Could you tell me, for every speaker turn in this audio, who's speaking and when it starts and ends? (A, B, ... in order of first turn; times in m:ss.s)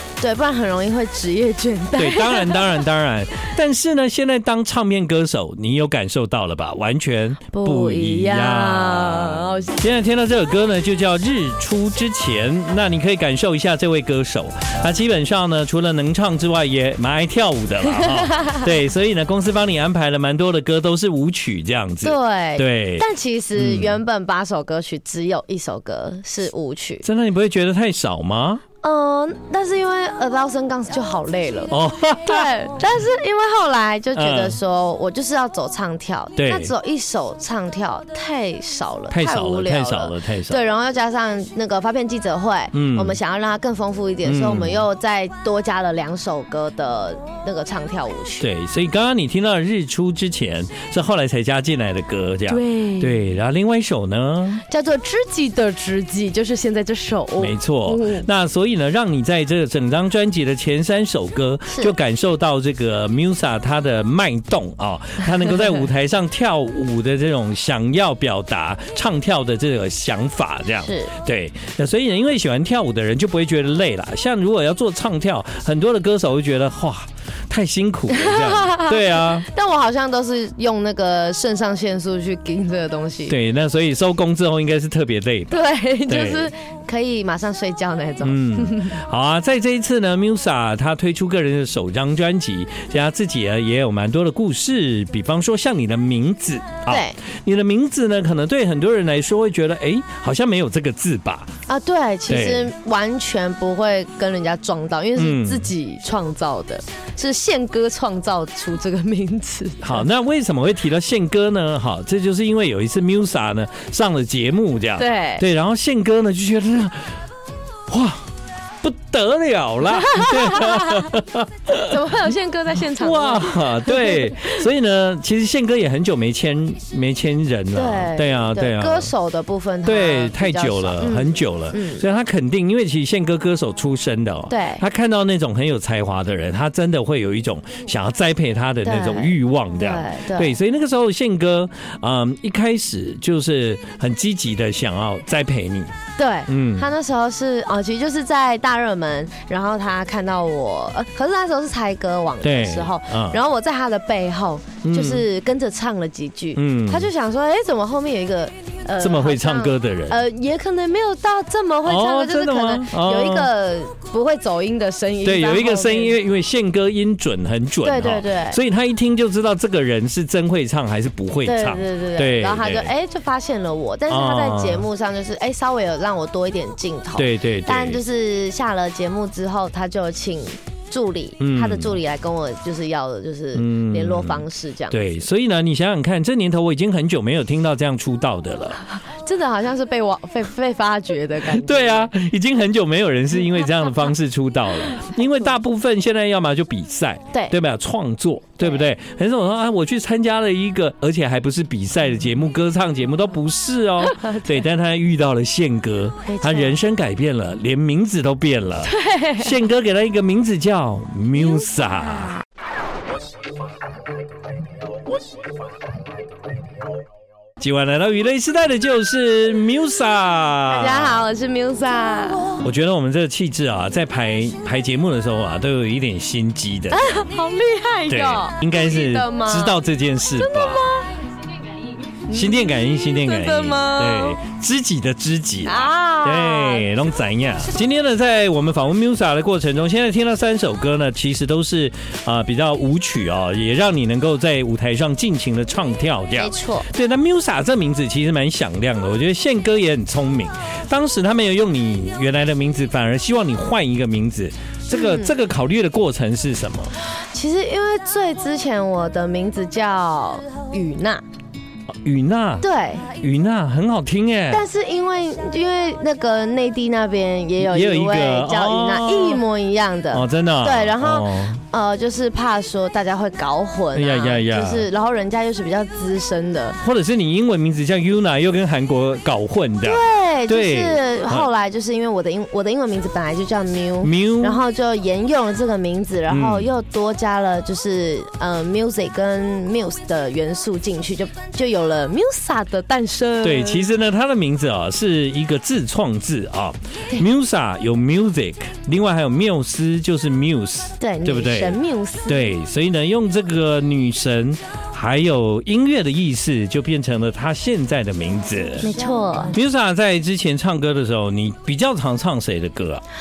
0:00.2-0:02.9 A
0:02.0-0:24.0 B
0:07.5-0:09.8 A
0:17.9-0:18.6 A
0:22.0-0:27.0 A
0:27.0-0:28.6 B
0:28.8-0:48.5 A
0:31.7-0:32.5 B
0:34.1-0:34.6 B
0:36.4-0:36.7 B
0:39.1-0:40.6 B
0:42.7-0:43.2 B
0:44.2-0:44.8 B
0:48.4-0:54.6 B
0:52.5-0:53.2 A
0:54.6-0:58.3 A
0:57.4-1:19.4 B
1:10.8-1:11.1 A
1:18.1-1:23.4 A
1:23.3-1:26.5 B
1:25.5-1:29.0 A
1:28.2-1:41.5 B
1:36.9-1:37.2 A
1:41.7-1:50.0 A
1:42.3-1:42.7 B
1:45.2-1:45.7 B
1:49.8-1:57.1 B
1:55.0-1:55.4 A
1:57.9-1:58.2 B
1:58.8-2:02.0 B
1:59.9-2:01.1 A
2:01.8-2:04.6 A
2:02.8-2:09.1 B
2:07.7-2:12.0 A
2:09.8-2:25.9 B
2:14.5-2:14.8 A
2:18.8-2:20.5 A
2:26.2-2:46.2 A
2:26.5-2:26.9 B
2:32.4-2:33.4 B
2:34.8-2:35.2 B
2:36.5-2:37.1 B
2:39.0-2:40.2 B
2:41.8-2:43.5 B
2:45.2-2:52.9 B
2:47.8-2:48.6 A
2:51.4-3:05.2 A
2:54.1-2:54.8 B
2:57.2-2:58.0 B
3:01.4-3:02.0 B
3:03.5-3:08.8 B
3:09.0-3:12.1 A
3:11.4-3:32.4 B
3:24.0-3:24.6 A
3:26.2-3:26.8 A
3:28.8-3:29.5 A
3:37.6-3:41.2 B
3:40.7-3:42.6 A
3:42.6-3:47.1 B
3:46.9-3:49.8 A
3:48.1-3:50.9 B
3:50.4-3:51.2 A
3:52.1-3:54.4 A
3:52.3-4:16.9 B
3:55.6-3:56.9 A
4:06.4-4:06.9 A
4:14.9-4:15.3 A
4:17.1-4:21.2 A
4:21.9-4:22.7 B
4:22.6-4:23.1 A
4:23.2-4:24.6 B
4:24.5-4:36.8 A
4:27.6-4:29.4 B
4:30.1-4:31.6 B
4:33.9-4:34.9 B
4:36.8-4:41.5 B
4:39.8-4:53.9 A
4:44.0-4:44.6 B
4:46.3-4:46.7 B
4:53.4-5:08.9 B
5:01.0-5:02.5 A
5:08.8-5:09.6 A
5:09.5-5:13.0 B